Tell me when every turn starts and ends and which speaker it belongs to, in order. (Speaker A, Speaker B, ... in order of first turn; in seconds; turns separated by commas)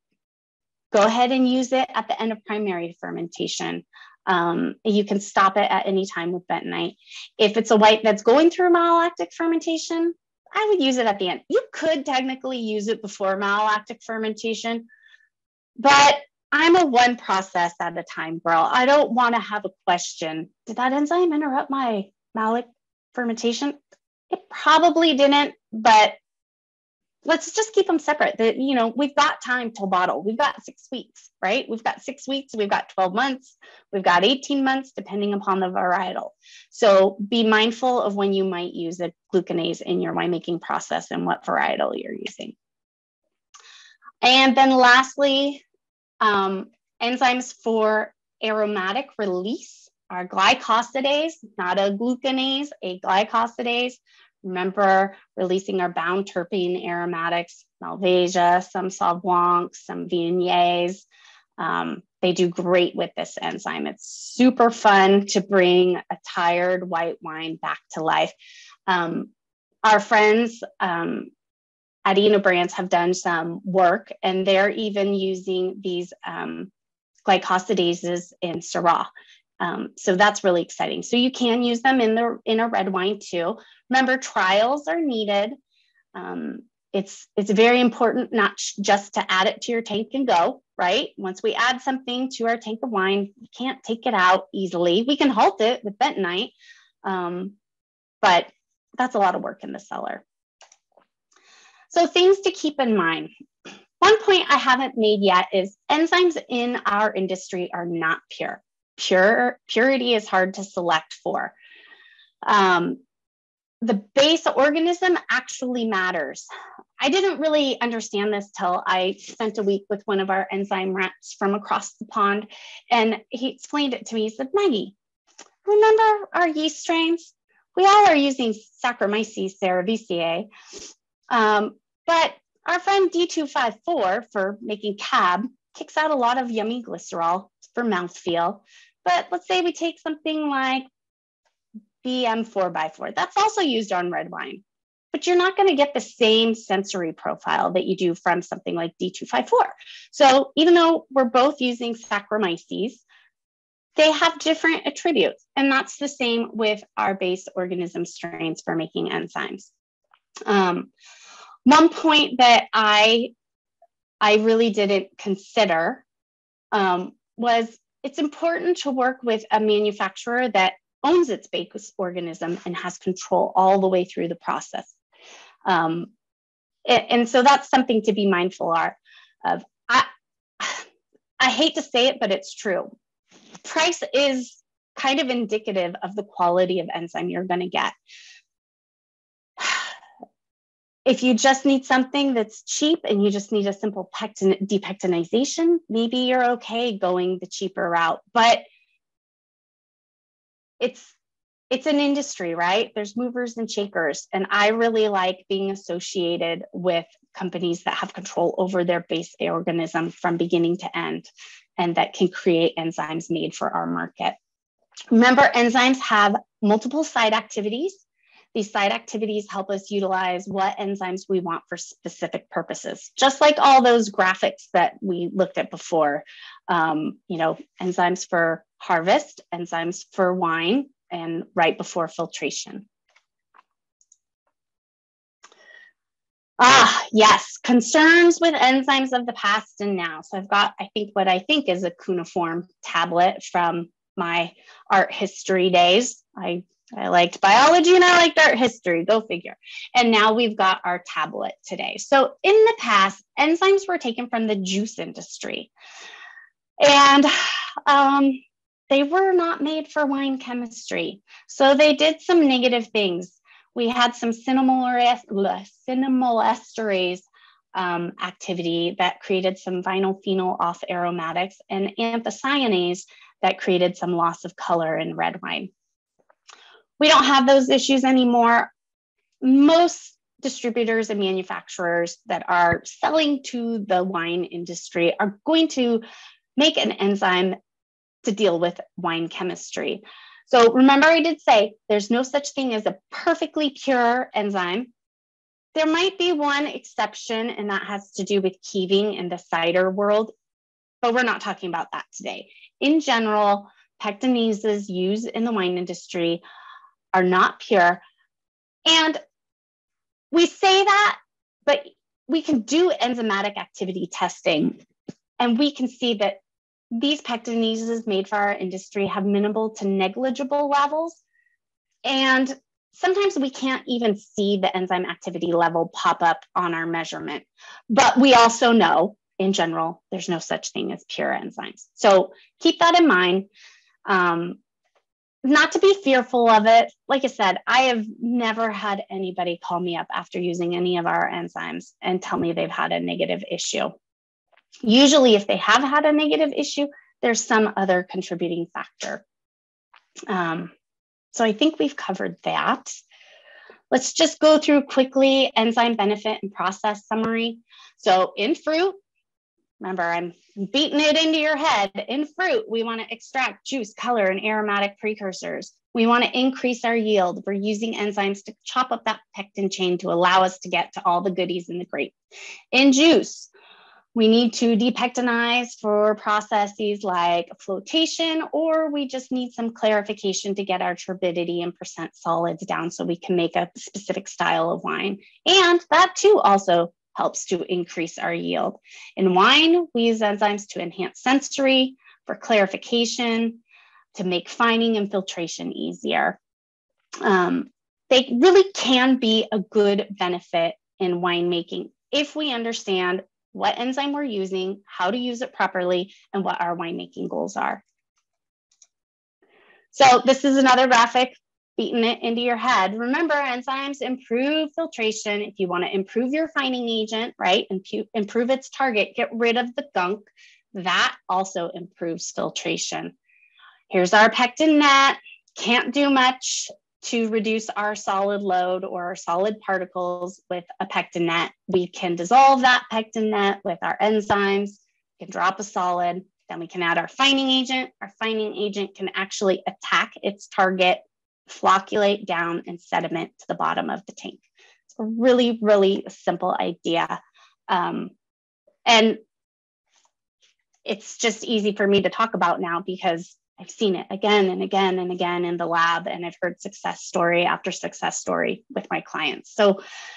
Speaker A: 0.9-14.8, Speaker A: 15.8-23.8, Speaker A: 24.3-26.2, Speaker A: 27.2-42.5, Speaker A: 44.2-45.6, Speaker A: 46.2-61.0, Speaker A: 61.6-68.3, Speaker A: 68.9-69.3, Speaker A: 69.8-71.3, Speaker A: 72.0-76.7, Speaker A: 77.2-79.1, Speaker A: 79.6-85.5, Speaker A: 86.1-96.5, Speaker A: 97.0-97.5, Speaker A: 98.2-100.2, Speaker A: 101.9-103.3, Speaker A: 104.0-111.5, Speaker A: 112.4-113.0, Speaker A: 113.8-116.5, Speaker A: 117.0-124.9, Speaker A: 125.6-130.5, Speaker A: 131.3-140.8, Speaker A: 142.0-153.0, Speaker A: 154.0-159.7, Speaker A: 160.4-160.9, Speaker A: 161.6-163.3, Speaker A: 164.2-166.0, Speaker A: 166.7-174.9, Speaker A: 175.7-176.1, Speaker A: 176.8-180.1, Speaker A: 180.6-180.8, Speaker A: 181.4-182.9, Speaker A: 183.6-187.9, Speaker A: 189.6-189.9, Speaker A: 191.1-198.6, Speaker A: 200.8-201.1, Speaker A: 201.7-214.4, Speaker A: 215.1-218.0, Speaker A: 218.5-232.8, Speaker A: 236.6-255.7, Speaker A: 256.8-257.3, Speaker A: 257.9-275.7, Speaker A: 277.0-278.7, Speaker A: 279.4-286.0, Speaker A: 286.6-287.6, Speaker A: 288.2-294.9, Speaker A: 295.7-300.3, Speaker A: 301.0-306.4, Speaker A: 307.1-308.0, Speaker A: 308.9-309.2, Speaker A: 310.3-314.8, Speaker A: 315.4-316.4, Speaker A: 316.9-321.2, Speaker A: 322.0-333.5, Speaker A: 334.1-334.6, Speaker A: 335.4-343.9, Speaker A: 344.8-349.2, Speaker A: 350.3-350.7, Speaker A: 351.3-353.0, Speaker A: 353.9-359.0, Speaker A: 359.8-372.1, Speaker A: 372.7-373.5, Speaker A: 374.1-393.6, Speaker A: 394.1-396.4, Speaker A: 397.2-407.8, Speaker A: 409.9-423.1, Speaker A: 423.9-444.4, Speaker A: 445.0-448.1, Speaker A: 448.9-449.2, Speaker A: 450.9-459.8